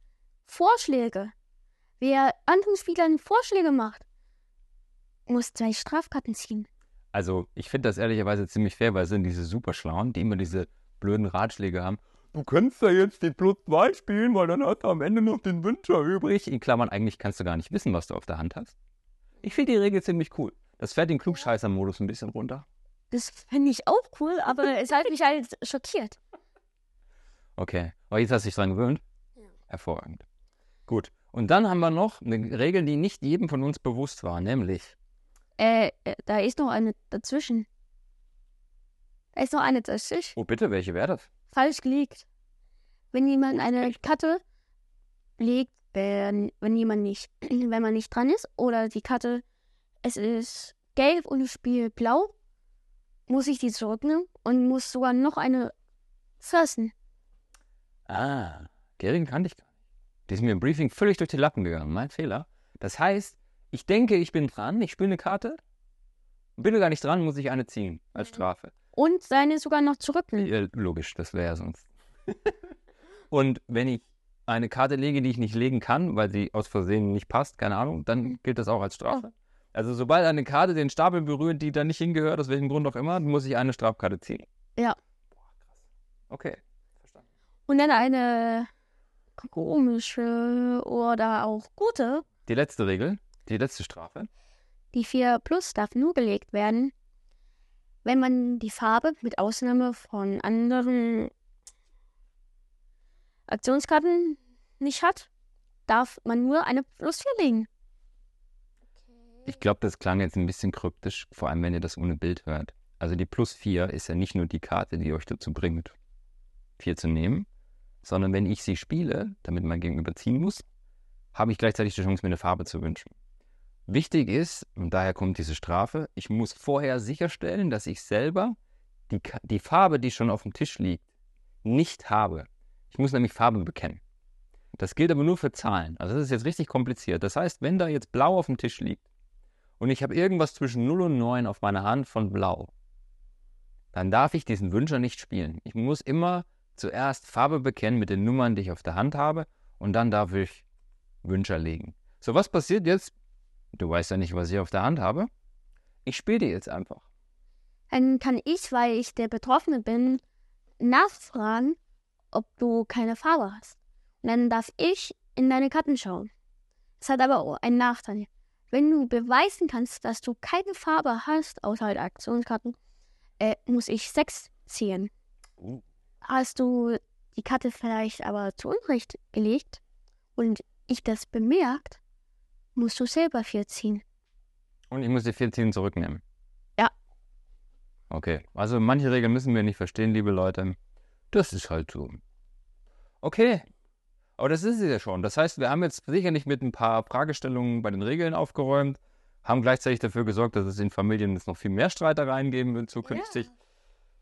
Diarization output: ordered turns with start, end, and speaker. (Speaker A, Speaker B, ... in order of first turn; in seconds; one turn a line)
Speaker A: 0.5-1.3
Speaker A: 2.0-4.0
Speaker A: 5.3-6.7
Speaker B: 7.1-18.7
Speaker B: 19.4-22.6
Speaker A: 23.1-26.2
Speaker B: 27.6-29.0
Speaker B: 29.7-30.2
Speaker B: 30.9-34.9
Speaker A: 35.6-37.7
Speaker A: 39.3-40.4
Speaker B: 40.4-41.3
Speaker A: 41.5-42.2
Speaker A: 43.1-44.4
Speaker A: 45.4-49.4
Speaker A: 50.0-52.3
Speaker A: 53.3-55.7
Speaker A: 56.4-56.9
Speaker B: 58.1-59.6
Speaker B: 60.3-65.6
Speaker B: 66.6-68.7
Speaker A: 69.0-70.5
Speaker B: 70.4-71.8
Speaker B: 73.3-84.4
Speaker B: 86.3-86.6
Speaker A: 87.7-88.7
Speaker A: 89.4-92.2
Speaker B: 92.5-94.3
Speaker A: 94.9-96.9
Speaker A: 98.0-101.3
Speaker A: 103.5-105.3
Speaker A: 105.9-107.7
Speaker B: 109.4-115.9
Speaker B: 116.8-117.5
Speaker B: 118.0-120.6
Speaker B: 121.3-123.1
Speaker B: 123.9-128.6
Speaker B: 129.1-131.0
Speaker B: 131.6-134.0
Speaker B: 134.8-139.0
Speaker B: 139.8-142.7
Speaker B: 143.9-150.6
Speaker B: 151.2-153.1
Speaker B: 153.7-155.3
Speaker B: 156.1-157.0
Speaker A: 157.9-160.2
Speaker A: 160.8-161.8
Speaker A: 162.3-166.3
Speaker A: 167.0-172.8
Speaker A: 173.4-175.1
Speaker A: 176.2-179.8
Speaker A: 180.3-182.0
Speaker A: 182.7-184.0
Speaker B: 184.9-186.2
Speaker B: 188.1-190.8
Speaker B: 191.3-192.2
Speaker B: 193.2-193.6
Speaker B: 194.4-203.5